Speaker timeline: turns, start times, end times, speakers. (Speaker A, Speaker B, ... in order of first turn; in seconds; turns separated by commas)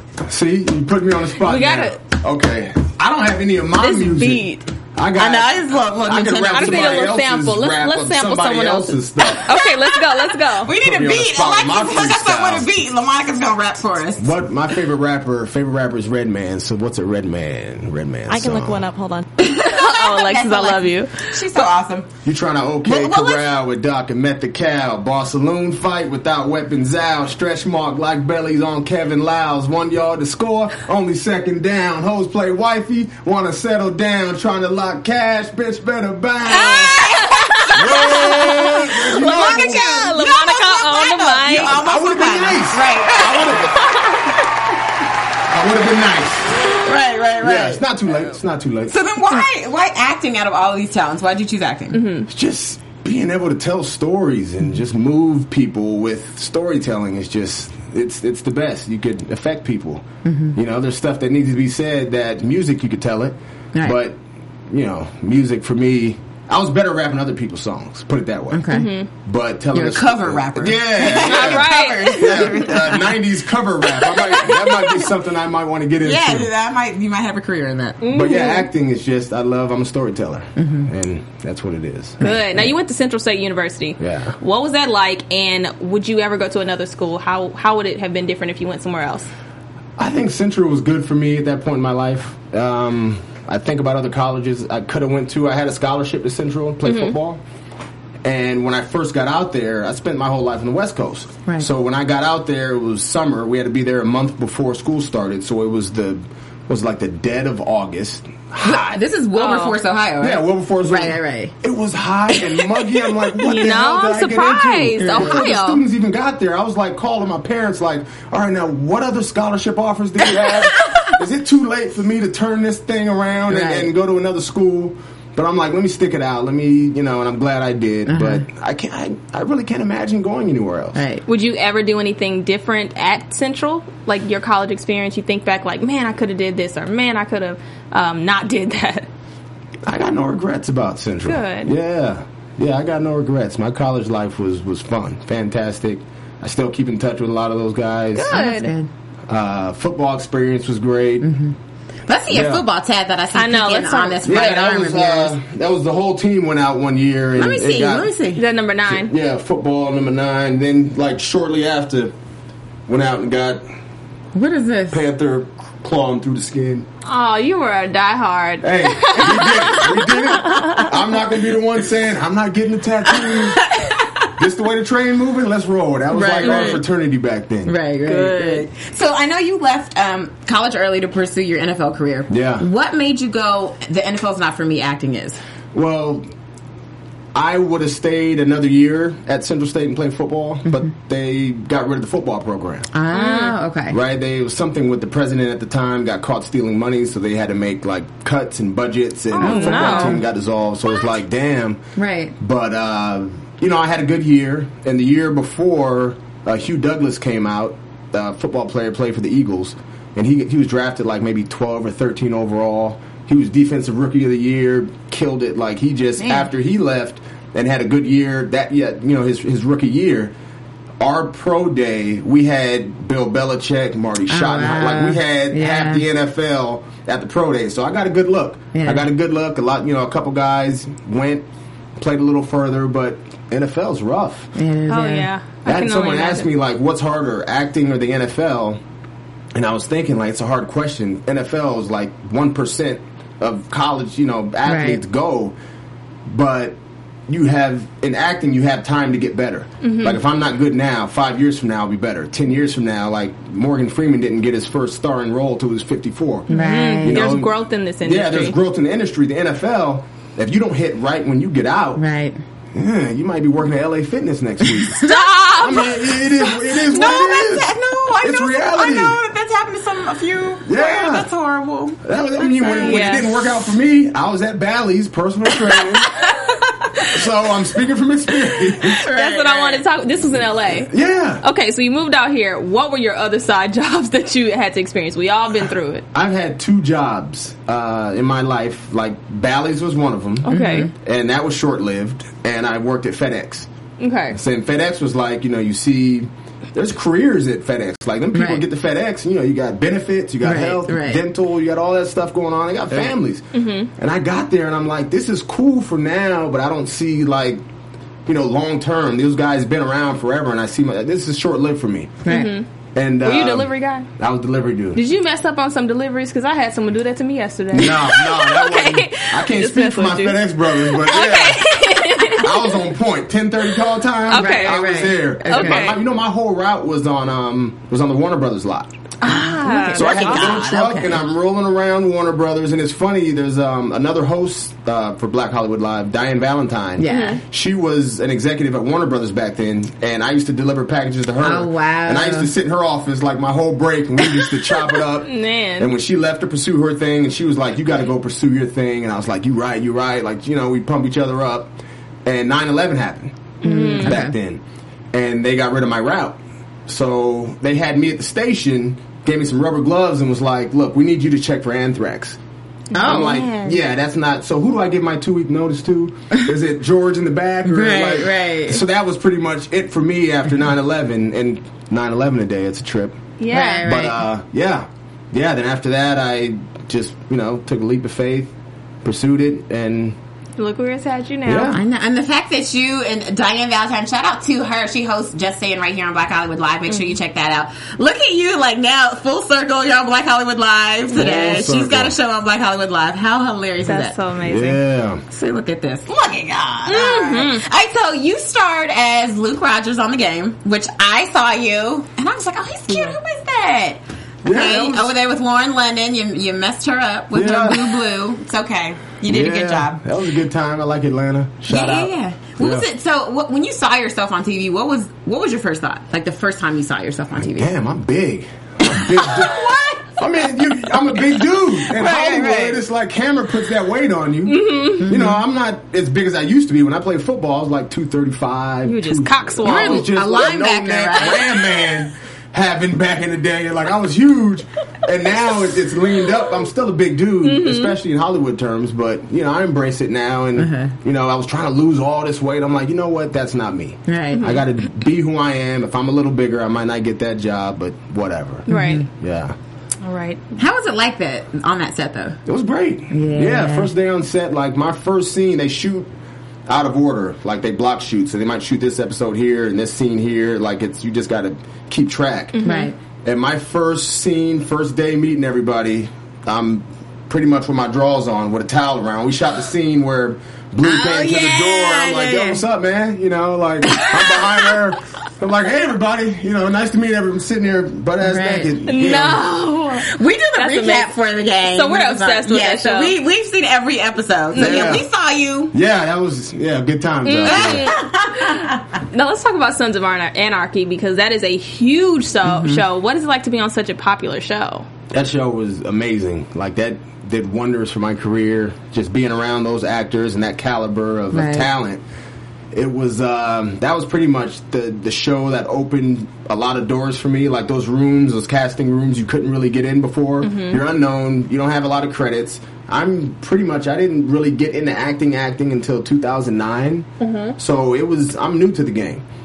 Speaker A: 0.2-9.5, Speaker B: 1.4-2.0, Speaker B: 3.8-4.7, Speaker C: 5.2-7.1, Speaker B: 6.5-10.7, Speaker C: 9.5-14.3, Speaker A: 10.7-12.7, Speaker A: 14.2-18.9, Speaker B: 18.3-21.6, Speaker C: 19.4-22.1, Speaker A: 22.2-37.0, Speaker C: 22.8-23.4, Speaker C: 36.5-43.7, Speaker B: 36.5-41.8, Speaker A: 37.7-39.9, Speaker A: 41.5-43.8, Speaker B: 43.8-44.3, Speaker A: 45.5-46.7, Speaker C: 46.8-47.8, Speaker A: 47.4-48.9, Speaker C: 48.9-52.0, Speaker B: 51.9-52.3, Speaker A: 52.3-60.0, Speaker C: 60.2-60.5, Speaker A: 60.5-76.5, Speaker C: 63.7-64.0, Speaker C: 68.5-68.9, Speaker B: 68.7-69.1, Speaker C: 69.7-73.2, Speaker B: 71.0-72.8, Speaker C: 74.1-74.5, Speaker C: 76.0-78.0, Speaker B: 78.0-78.7, Speaker A: 78.1-82.6, Speaker C: 80.5-80.9, Speaker B: 82.2-89.3, Speaker C: 82.2-82.5, Speaker A: 84.0-84.3, Speaker A: 90.0-97.4, Speaker B: 96.8-97.1, Speaker A: 98.2-109.0, Speaker C: 108.6-111.5, Speaker B: 109.3-109.8, Speaker A: 110.2-131.0, Speaker B: 113.3-115.8, Speaker C: 123.5-123.9, Speaker C: 128.1-128.4, Speaker C: 130.9-131.2, Speaker B: 131.3-139.1, Speaker A: 139.8-148.4, Speaker B: 141.2-141.7, Speaker B: 148.1-148.7, Speaker C: 148.3-148.9, Speaker A: 149.3-151.3, Speaker C: 151.2-151.5, Speaker C: 152.1-155.3, Speaker A: 152.3-152.6, Speaker B: 153.3-154.2, Speaker A: 154.2-158.1, Speaker C: 157.3-158.4, Speaker B: 158.3-159.1, Speaker A: 158.9-162.1, Speaker A: 162.9-163.6, Speaker C: 164.3-165.0, Speaker A: 164.9-166.9, Speaker B: 167.1-170.9, Speaker A: 168.6-173.7, Speaker C: 173.3-174.2, Speaker A: 174.4-177.7, Speaker C: 176.1-176.8, Speaker B: 176.4-176.7, Speaker C: 177.6-185.4, Speaker B: 178.0-178.7, Speaker A: 182.3-182.7, Speaker A: 185.7-186.2, Speaker A: 187.3-192.9, Speaker C: 192.9-194.0, Speaker B: 193.1-193.6, Speaker A: 193.9-201.8, Speaker B: 199.3-200.2, Speaker C: 199.4-200.2, Speaker C: 201.9-202.3, Speaker A: 202.4-220.3, Speaker C: 216.2-216.4, Speaker A: 221.0-231.4, Speaker C: 224.3-226.0, Speaker C: 228.7-229.1, Speaker A: 232.0-234.5, Speaker C: 234.5-235.3, Speaker B: 234.9-236.5, Speaker A: 235.6-238.8, Speaker A: 239.5-245.5, Speaker C: 244.7-245.0, Speaker A: 246.3-246.8, Speaker A: 247.3-256.5, Speaker B: 249.8-250.2, Speaker C: 256.5-257.3, Speaker B: 256.5-258.6, Speaker A: 257.0-257.5, Speaker A: 258.0-262.0, Speaker C: 261.9-262.4, Speaker A: 262.7-269.2, Speaker B: 265.0-266.1, Speaker C: 266.6-273.1, Speaker A: 270.6-271.3, Speaker A: 272.0-276.1, Speaker B: 272.7-273.3, Speaker C: 276.1-276.5, Speaker A: 277.1-279.0, Speaker B: 278.8-280.9, Speaker C: 278.8-279.8, Speaker A: 280.8-281.4, Speaker B: 281.4-286.0, Speaker A: 286.1-293.7, Speaker B: 290.4-290.9, Speaker C: 290.5-290.9, Speaker B: 294.0-294.4, Speaker A: 294.3-303.4, Speaker C: 298.3-298.6, Speaker C: 300.4-301.2, Speaker B: 303.5-303.9, Speaker A: 303.9-307.6, Speaker A: 308.2-312.2, Speaker C: 312.2-312.5, Speaker B: 312.3-312.6, Speaker A: 312.9-315.0, Speaker B: 313.2-314.1, Speaker B: 314.9-322.8, Speaker A: 317.7-328.9, Speaker B: 324.3-326.0, Speaker C: 324.3-325.9, Speaker B: 329.2-330.6, Speaker C: 329.2-331.2, Speaker A: 329.9-351.7, Speaker C: 337.0-337.4, Speaker B: 337.1-337.4, Speaker C: 341.4-342.5, Speaker B: 345.1-345.9, Speaker A: 352.2-353.3, Speaker B: 353.6-354.2, Speaker C: 353.6-354.3, Speaker A: 354.0-354.6, Speaker A: 355.1-362.4, Speaker B: 362.9-363.8, Speaker C: 362.9-363.4, Speaker A: 363.0-373.2, Speaker C: 367.6-368.8, Speaker B: 373.4-373.9, Speaker C: 373.5-374.2, Speaker A: 373.8-378.5, Speaker A: 379.0-380.1, Speaker B: 380.6-381.8, Speaker A: 381.4-381.8, Speaker C: 381.7-394.1, Speaker A: 391.1-392.1, Speaker B: 393.8-394.8, Speaker A: 394.4-395.2, Speaker C: 395.3-410.0, Speaker B: 396.9-397.6, Speaker A: 404.4-405.1, Speaker A: 407.3-408.0, Speaker A: 409.2-412.9, Speaker C: 411.7-417.7, Speaker A: 417.4-419.6, Speaker C: 418.9-420.1, Speaker A: 420.2-449.6, Speaker C: 421.7-422.8, Speaker B: 424.5-425.1, Speaker C: 425.0-425.4, Speaker B: 428.8-430.1, Speaker C: 429.6-431.5, Speaker B: 437.4-437.9, Speaker C: 440.6-440.9, Speaker C: 444.1-444.4, Speaker B: 444.3-444.6, Speaker B: 448.7-449.0, Speaker C: 448.7-449.1, Speaker B: 450.0-450.4, Speaker C: 450.6-452.4, Speaker A: 452.4-456.1, Speaker C: 453.1-453.9, Speaker A: 456.7-462.6, Speaker B: 462.5-462.9, Speaker C: 462.6-462.9, Speaker A: 463.2-479.4, Speaker C: 470.8-472.6, Speaker C: 473.9-474.4, Speaker C: 478.2-478.7, Speaker B: 478.9-481.1, Speaker C: 480.0-485.7, Speaker B: 481.6-483.2, Speaker B: 484.5-485.0, Speaker A: 484.5-485.0, Speaker A: 485.7-487.9, Speaker B: 487.2-494.9, Speaker C: 487.4-488.8, Speaker C: 492.4-492.8, Speaker A: 495.1-502.0, Speaker C: 501.3-501.7, Speaker A: 502.7-519.2, Speaker B: 510.4-510.8, Speaker B: 517.2-517.5